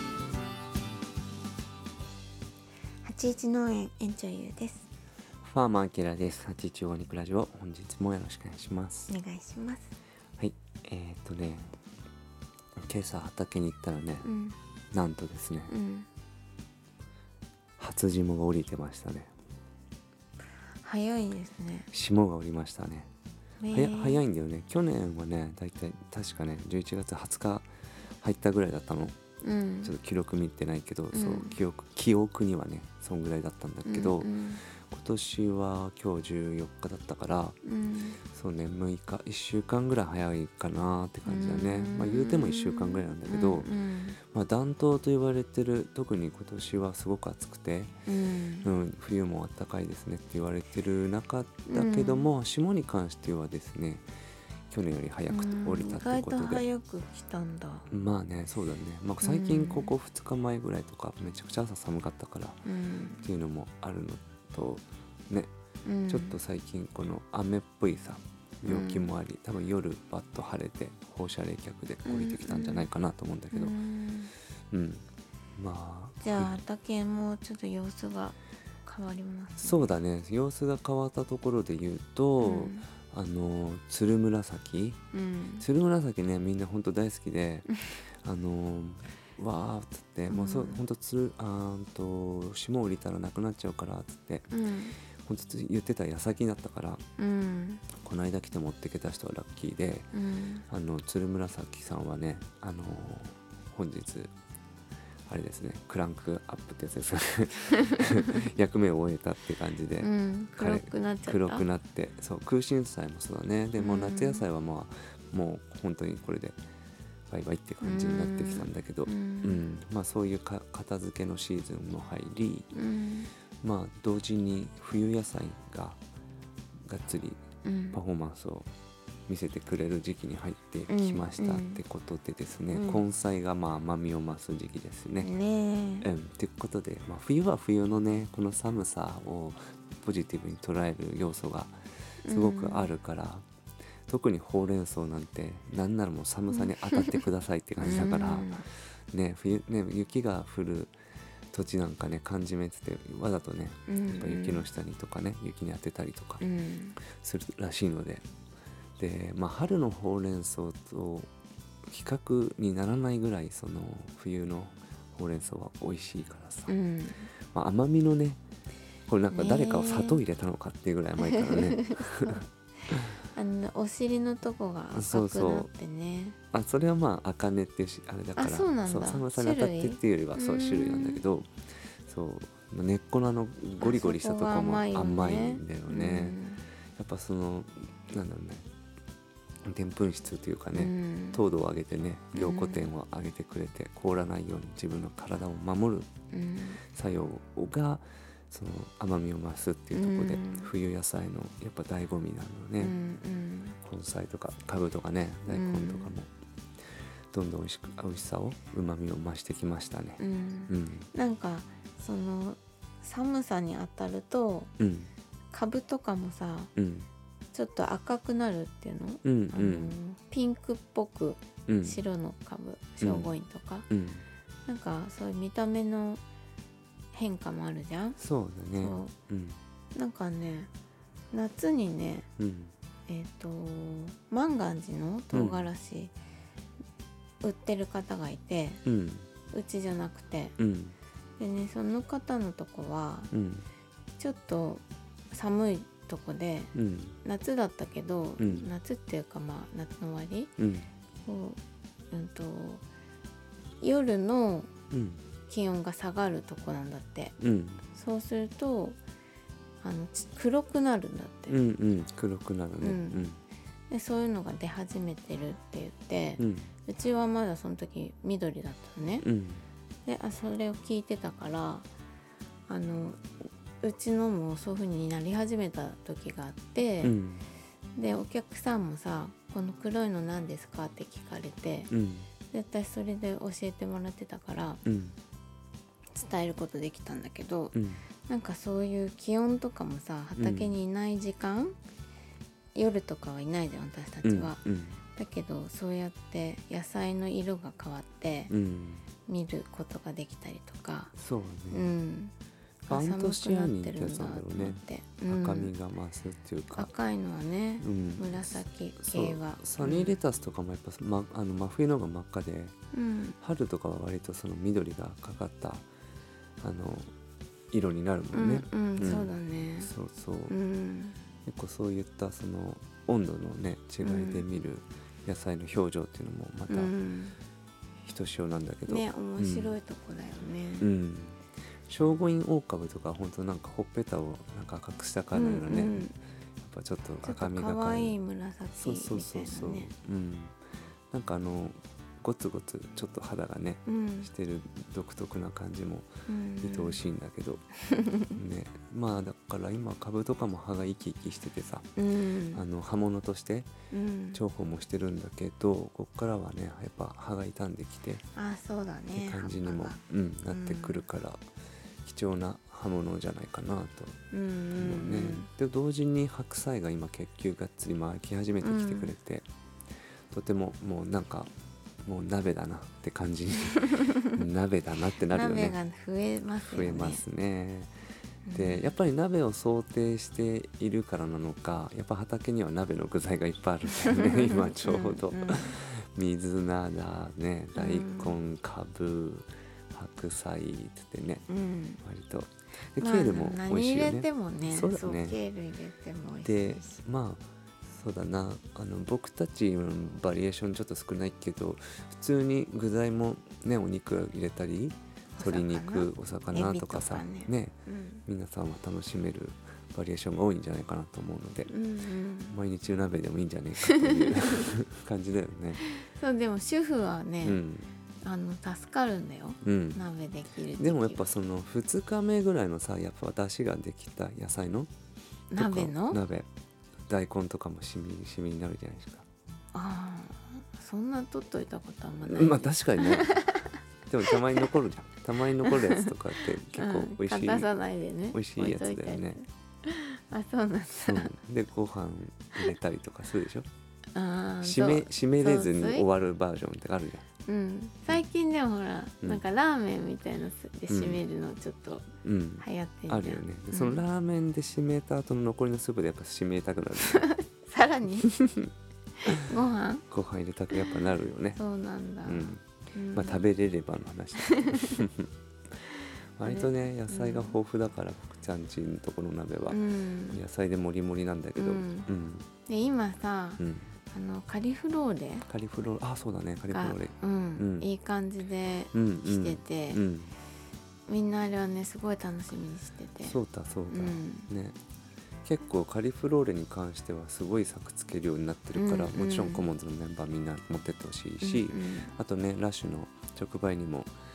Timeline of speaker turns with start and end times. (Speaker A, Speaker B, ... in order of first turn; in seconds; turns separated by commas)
Speaker A: 3.0-4.9, Speaker B: 5.4-9.1, Speaker A: 9.1-9.9, Speaker B: 10.4-11.7, Speaker B: 12.8-14.3, Speaker A: 14.2-14.6, Speaker B: 14.9-15.7, Speaker A: 15.7-16.1, Speaker B: 17.8-19.3, Speaker A: 20.8-21.9, Speaker B: 21.9-23.1, Speaker A: 23.6-24.2, Speaker B: 23.7-27.7, Speaker B: 28.2-29.2, Speaker A: 29.4-29.9, Speaker B: 29.8-37.6, Speaker A: 31.1-31.6, Speaker A: 33.9-34.6, Speaker A: 37.6-38.2, Speaker B: 38.3-43.7, Speaker A: 41.2-44.2, Speaker B: 44.3-47.9, Speaker A: 48.1-48.7, Speaker B: 48.6-54.0, Speaker A: 51.7-52.3, Speaker B: 54.7-56.6, Speaker A: 55.3-57.9, Speaker B: 57.9-62.6, Speaker A: 59.2-59.9, Speaker A: 62.7-63.2, Speaker B: 63.2-65.5, Speaker A: 65.8-66.4, Speaker B: 66.1-73.8, Speaker A: 68.7-69.1, Speaker A: 72.0-72.9, Speaker A: 73.5-74.3, Speaker B: 74.7-75.0, Speaker B: 75.6-76.6, Speaker A: 76.2-79.9, Speaker B: 79.6-85.0, Speaker A: 82.4-82.9, Speaker A: 85.1-85.7, Speaker B: 85.6-87.7, Speaker B: 88.2-94.5, Speaker A: 90.3-90.8, Speaker A: 94.5-95.0, Speaker B: 95.2-97.0, Speaker A: 97.2-97.8, Speaker B: 98.0-100.1, Speaker A: 100.1-100.7, Speaker B: 100.7-104.3, Speaker B: 105.3-116.6, Speaker A: 107.7-108.3, Speaker A: 110.0-111.7, Speaker A: 113.8-114.5, Speaker B: 117.3-122.7, Speaker A: 117.8-119.6, Speaker A: 122.7-123.3, Speaker B: 123.6-126.0, Speaker B: 126.9-128.7, Speaker A: 127.6-128.0, Speaker B: 129.3-135.3, Speaker A: 130.9-131.8, Speaker A: 132.7-133.0, Speaker A: 135.2-136.1, Speaker B: 136.0-143.4, Speaker A: 142.2-142.9, Speaker B: 144.1-150.9, Speaker A: 146.6-147.2, Speaker A: 147.8-148.6, Speaker B: 151.5-156.4, Speaker A: 153.9-154.7, Speaker A: 156.4-157.0, Speaker B: 157.0-158.2, Speaker B: 159.0-161.3, Speaker B: 161.8-166.7, Speaker A: 166.7-167.3, Speaker B: 167.5-168.4, Speaker B: 169.1-172.4, Speaker A: 169.3-170.2, Speaker A: 171.2-176.4, Speaker B: 174.9-175.7, Speaker B: 176.5-186.4, Speaker A: 178.3-181.2, Speaker A: 183.8-186.6, Speaker B: 186.9-188.7, Speaker B: 189.6-196.1, Speaker A: 190.7-191.4, Speaker A: 192.3-192.8, Speaker A: 196.3-196.8, Speaker B: 196.9-202.9, Speaker A: 199.9-200.7, Speaker A: 202.8-203.8, Speaker B: 203.8-206.3, Speaker A: 205.5-206.1, Speaker B: 207.3-211.1, Speaker A: 210.2-214.7, Speaker B: 214.8-215.1, Speaker A: 215.5-216.7, Speaker B: 216.8-217.1, Speaker A: 217.5-223.9, Speaker B: 219.2-219.9, Speaker B: 221.7-222.0, Speaker B: 223.0-223.3, Speaker B: 223.9-224.2, Speaker A: 224.7-226.2, Speaker A: 227.1-228.2, Speaker B: 228.2-229.6, Speaker A: 228.8-229.1, Speaker A: 229.9-230.7, Speaker A: 231.3-232.3, Speaker B: 232.4-232.7, Speaker A: 233.1-236.1, Speaker B: 235.3-235.7, Speaker A: 237.4-238.8, Speaker B: 238.8-239.3, Speaker A: 239.5-240.5, Speaker B: 240.6-241.0, Speaker A: 241.4-243.3, Speaker B: 243.3-243.7, Speaker A: 244.2-246.7, Speaker B: 246.7-247.2, Speaker A: 247.2-250.5, Speaker B: 248.4-248.7, Speaker B: 250.6-250.9, Speaker A: 251.2-251.6, Speaker A: 252.1-252.8, Speaker A: 253.8-254.7, Speaker B: 254.9-255.2, Speaker A: 255.5-257.4, Speaker B: 257.4-257.9, Speaker A: 257.9-259.0, Speaker A: 259.8-261.6, Speaker B: 261.5-263.4, Speaker A: 262.8-263.2, Speaker A: 263.9-269.2, Speaker B: 266.4-266.7, Speaker B: 269.2-269.7, Speaker A: 270.1-271.9, Speaker A: 272.7-273.2, Speaker A: 273.8-277.1, Speaker B: 277.0-277.5, Speaker A: 277.9-281.9, Speaker B: 281.9-282.3, Speaker A: 282.5-284.8, Speaker B: 284.9-285.2, Speaker A: 286.1-287.8, Speaker B: 287.7-288.1, Speaker A: 288.3-291.8, Speaker B: 290.4-290.7, Speaker A: 292.8-294.6, Speaker B: 294.2-295.0, Speaker A: 295.1-298.5, Speaker B: 298.5-299.1, Speaker A: 299.2-301.1, Speaker B: 301.1-301.9, Speaker A: 301.7-302.3, Speaker A: 302.9-305.7, Speaker B: 302.9-306.9, Speaker A: 306.8-310.2, Speaker B: 307.8-312.8, Speaker A: 312.9-313.4, Speaker B: 313.4-315.9, Speaker B: 316.6-317.1, Speaker B: 317.7-320.6, Speaker A: 318.3-319.9, Speaker A: 320.5-321.2, Speaker B: 321.5-326.9, Speaker A: 324.0-324.4, Speaker A: 326.7-327.4, Speaker B: 328.0-329.8, Speaker A: 328.9-330.9, Speaker B: 330.8-336.1, Speaker A: 335.3-336.1, Speaker B: 336.6-338.2, Speaker A: 337.2-339.9, Speaker B: 338.8-340.6, Speaker B: 341.1-346.1, Speaker A: 343.9-344.3, Speaker A: 346.3-347.0, Speaker B: 346.6-347.7, Speaker A: 347.9-348.4, Speaker B: 348.4-351.9, Speaker A: 352.0-352.6, Speaker B: 352.5-353.7, Speaker A: 353.9-354.4, Speaker B: 354.3-358.2, Speaker A: 358.4-361.1, Speaker B: 359.1-361.4, Speaker B: 362.0-364.2, Speaker A: 364.3-365.5, Speaker B: 364.8-369.5, Speaker A: 368.6-369.1, Speaker B: 370.3-371.5, Speaker B: 372.1-375.8, Speaker A: 374.0-374.2, Speaker A: 375.3-377.2, Speaker B: 376.6-377.9, Speaker A: 378.4-378.9, Speaker B: 378.5-391.4, Speaker A: 383.9-385.8, Speaker A: 387.8-388.4, Speaker A: 391.5-392.0, Speaker B: 392.0-395.4, Speaker A: 393.0-396.9, Speaker B: 396.4-411.7, Speaker A: 405.4-408.2, Speaker A: 411.7-412.6, Speaker B: 412.5-415.8, Speaker A: 413.8-414.6, Speaker A: 415.8-417.6, Speaker B: 417.4-417.9, Speaker A: 418.2-421.3, Speaker B: 419.6-420.0, Speaker B: 420.8-424.9, Speaker A: 425.5-426.2, Speaker B: 425.6-426.5, Speaker B: 427.1-429.2, Speaker A: 429.7-433.7, Speaker B: 432.3-433.4, Speaker B: 434.1-437.7, Speaker A: 434.3-434.6, Speaker A: 435.6-436.1, Speaker A: 436.7-441.3, Speaker B: 438.3-439.4, Speaker B: 441.1-443.7, Speaker A: 444.1-446.1, Speaker B: 444.6-447.2, Speaker A: 447.5-452.1, Speaker B: 450.9-451.2, Speaker B: 452.2-457.2, Speaker A: 452.6-454.0, Speaker A: 457.0-458.3, Speaker B: 458.3-458.7, Speaker A: 459.3-460.1, Speaker B: 460.1-461.6, Speaker A: 461.6-463.4, Speaker B: 462.2-465.3, Speaker A: 464.4-465.0, Speaker B: 466.4-472.5, Speaker A: 466.4-467.6, Speaker A: 469.7-470.4, Speaker A: 471.6-472.1, Speaker A: 472.7-475.5, Speaker B: 473.6-473.9, Speaker B: 475.5-477.9, Speaker A: 476.7-480.0, Speaker B: 478.9-480.4, Speaker A: 481.1-483.4, Speaker B: 483.2-484.8, Speaker A: 483.9-484.5, Speaker B: 485.4-494.1, Speaker A: 488.7-489.7, Speaker A: 491.4-492.1